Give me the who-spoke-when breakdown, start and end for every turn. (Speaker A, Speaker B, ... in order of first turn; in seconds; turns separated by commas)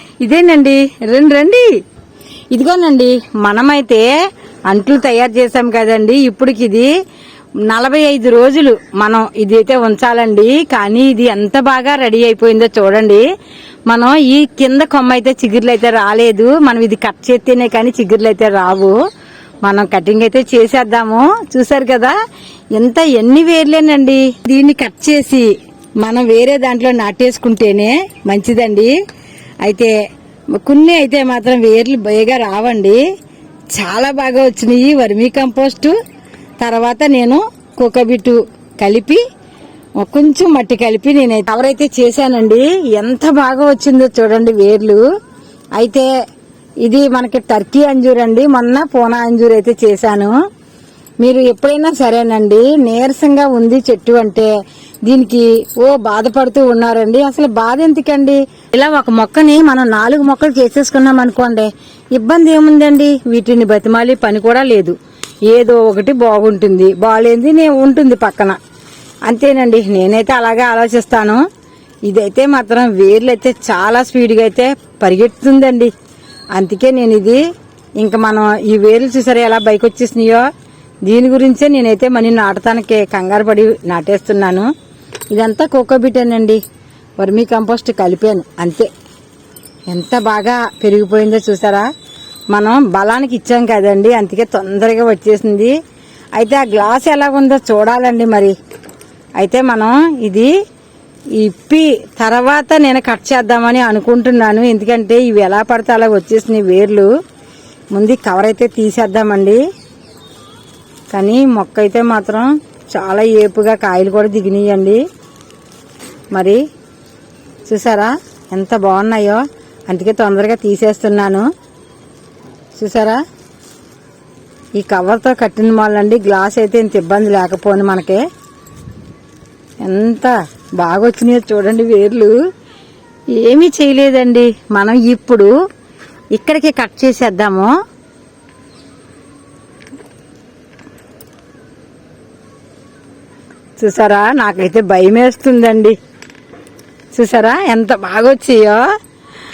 Speaker A: 0.2-1.8, Speaker A: 2.5-4.1, Speaker A: 4.7-6.9, Speaker A: 7.7-13.2, Speaker A: 13.9-18.9, Speaker A: 19.6-22.1, Speaker A: 22.8-25.5, Speaker A: 26.0-28.9, Speaker A: 29.6-29.9, Speaker A: 30.6-33.0, Speaker A: 33.7-36.0, Speaker A: 36.6-39.2, Speaker A: 40.0-45.0, Speaker A: 45.8-46.1, Speaker A: 46.8-50.4, Speaker A: 51.2-54.5, Speaker A: 55.0-64.9, Speaker A: 65.5-68.6, Speaker A: 69.2-71.4, Speaker A: 72.1-75.9, Speaker A: 76.5-77.4, Speaker A: 78.0-80.5, Speaker A: 81.0-84.7, Speaker A: 85.3-86.6, Speaker A: 87.2-88.9, Speaker A: 89.9-91.9, Speaker A: 92.5-95.7, Speaker A: 96.3-98.5, Speaker A: 99.4-100.5, Speaker A: 101.4-107.1, Speaker A: 107.9-109.6, Speaker A: 111.1-115.0, Speaker A: 116.3-116.6, Speaker A: 117.7-121.5, Speaker A: 122.8-123.2, Speaker A: 124.8-128.2, Speaker A: 129.8-132.3, Speaker A: 133.4-135.5, Speaker A: 136.3-137.7, Speaker A: 143.8-145.9, Speaker A: 147.1-148.8